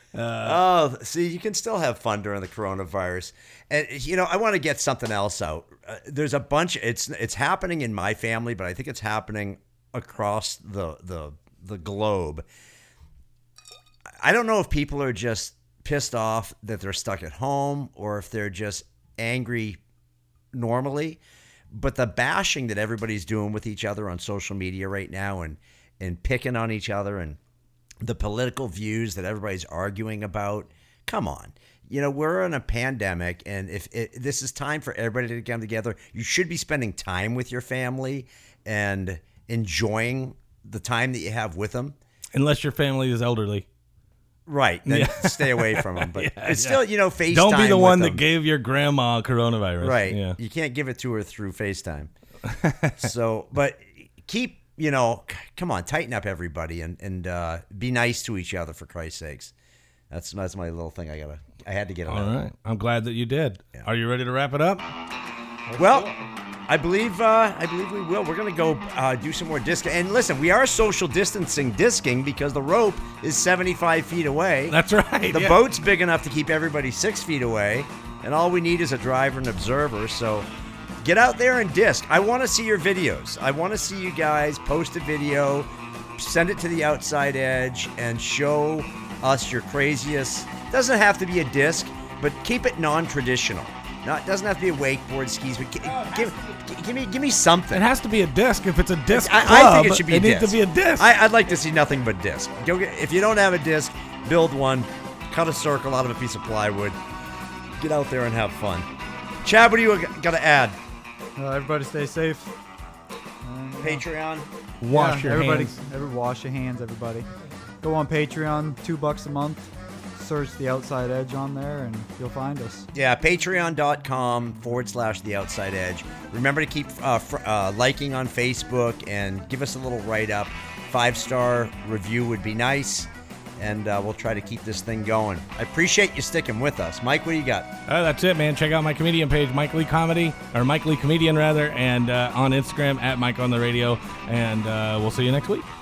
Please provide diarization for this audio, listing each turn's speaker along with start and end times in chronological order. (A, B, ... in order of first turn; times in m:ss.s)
0:00.1-0:00.6 A
0:00.4-0:12.4 B
0:14.2-0:19.8 B
0:20.5-0:27.4 B
0:28.0-0:42.0 B
0:42.3-0:43.7 A
0:44.5-0:48.2 B
0:44.9-0:50.4 A
0:49.8-0:52.1 B
0:52.4-0:53.1 A
0:53.0-0:59.5 B
1:00.1-1:02.3 B
1:02.1-1:04.8 A
1:05.7-1:06.3 A
1:05.8-1:06.1 B
1:06.7-1:14.8 B
1:14.7-1:15.6 A
1:15.3-1:20.5 B
1:21.0-1:37.8 B
1:37.7-1:41.1 A
1:39.1-1:47.0 B
1:47.8-1:48.9 B
1:49.4-1:50.8 B
1:51.4-1:52.6 C
1:53.4-1:54.0 C
1:53.8-1:54.5 B
1:54.8-1:55.8 A
1:54.9-1:57.3 C
1:57.8-2:02.9 C
2:02.9-2:17.7 B
2:17.9-2:25.7 A